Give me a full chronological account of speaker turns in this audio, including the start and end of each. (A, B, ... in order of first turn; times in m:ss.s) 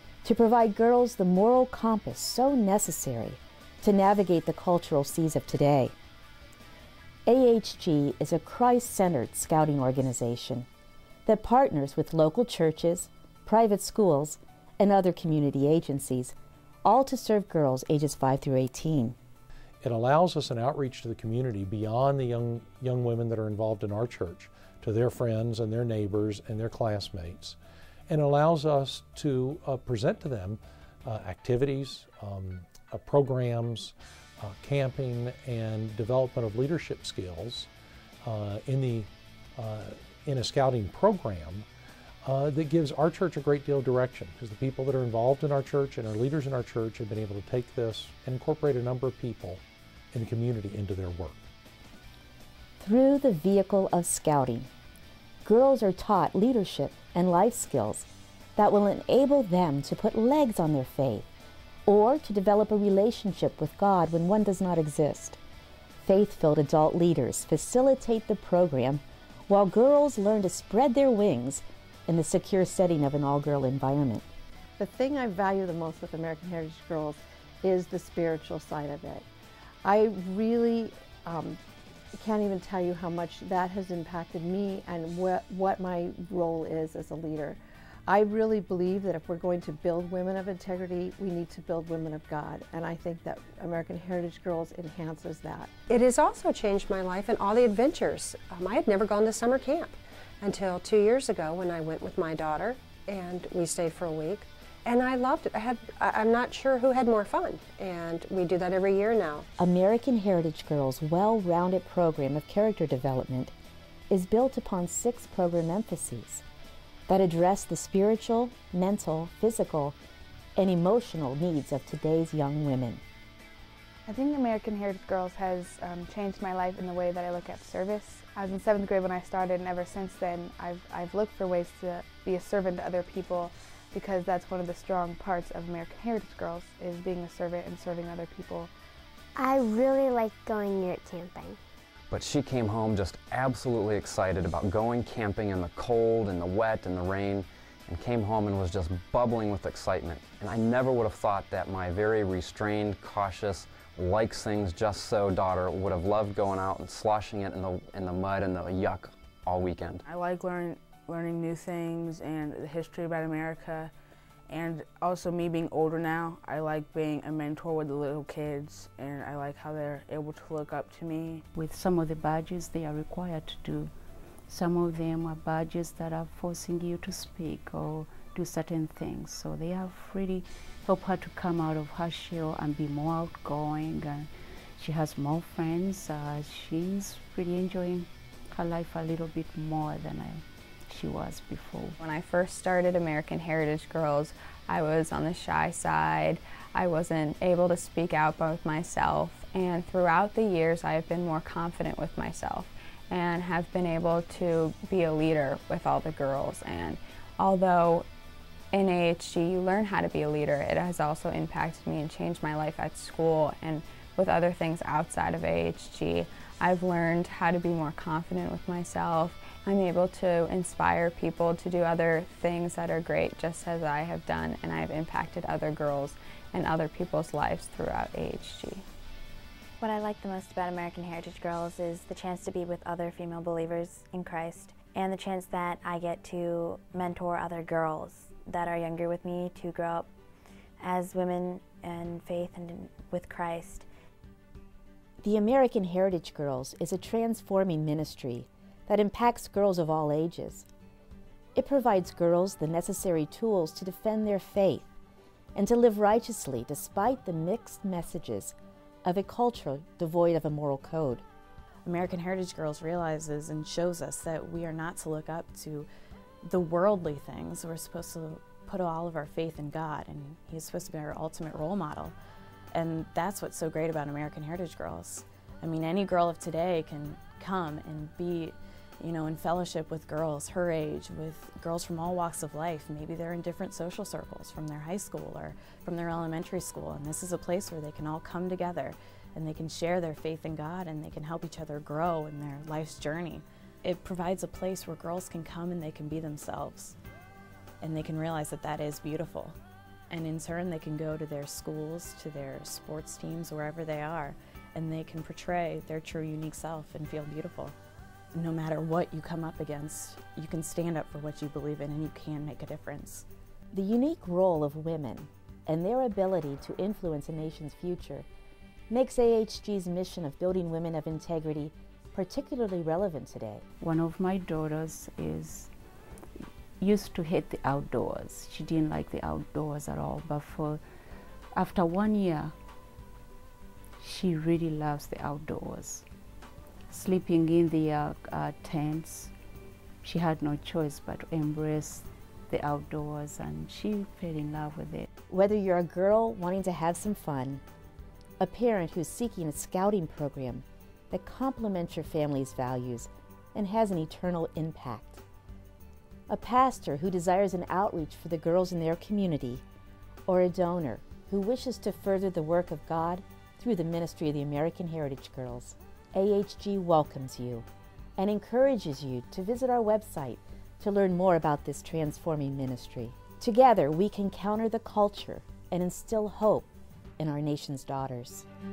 0:00.2-0:06.0 A
0:07.3-0:10.7 A
0:11.3-0:19.2 A
0:19.8-0:27.6 B
0:28.1-0:37.7 B
0:38.2-0:41.7 B
0:42.2-0:51.4 B
0:52.8-0:54.7 A
0:55.4-1:01.3 A
1:01.9-1:05.4 A
1:06.0-1:14.2 A
1:14.8-1:19.2 C
1:19.8-1:21.6 C
1:22.1-1:35.7 C
1:35.9-1:49.5 D
1:49.6-1:53.5 A
1:54.1-1:56.4 A
1:57.1-2:00.0 A
2:00.6-2:03.0 A
2:04.1-2:18.7 E
2:19.4-2:21.6 F
2:22.1-2:40.0 G
2:40.1-2:43.9 H
2:44.5-2:51.4 H
2:51.5-2:53.9 I
2:54.5-3:12.0 I
3:12.0-3:28.1 J
3:28.7-3:48.9 J
3:49.8-4:00.0 K
4:00.8-4:03.8 K
4:02.1-4:02.8 F
4:05.2-4:10.7 A
4:11.6-4:14.9 A
4:15.6-4:21.2 A
4:21.8-4:25.9 L
4:26.4-4:32.2 L
4:32.7-4:57.0 L
4:57.8-4:59.6 L
5:00.1-5:07.8 L
5:08.3-5:13.3 L
5:13.7-5:18.3 A
5:18.9-5:23.6 A
5:23.8-5:25.7 I
5:26.8-5:30.8 I
5:31.5-5:32.5 I
5:34.0-5:36.0 I
5:36.9-5:39.3 I
5:40.0-5:45.1 I
5:45.3-5:47.6 A
5:48.4-5:55.2 A
5:56.3-5:59.6 A
6:00.3-6:07.7 A
6:08.2-6:18.5 A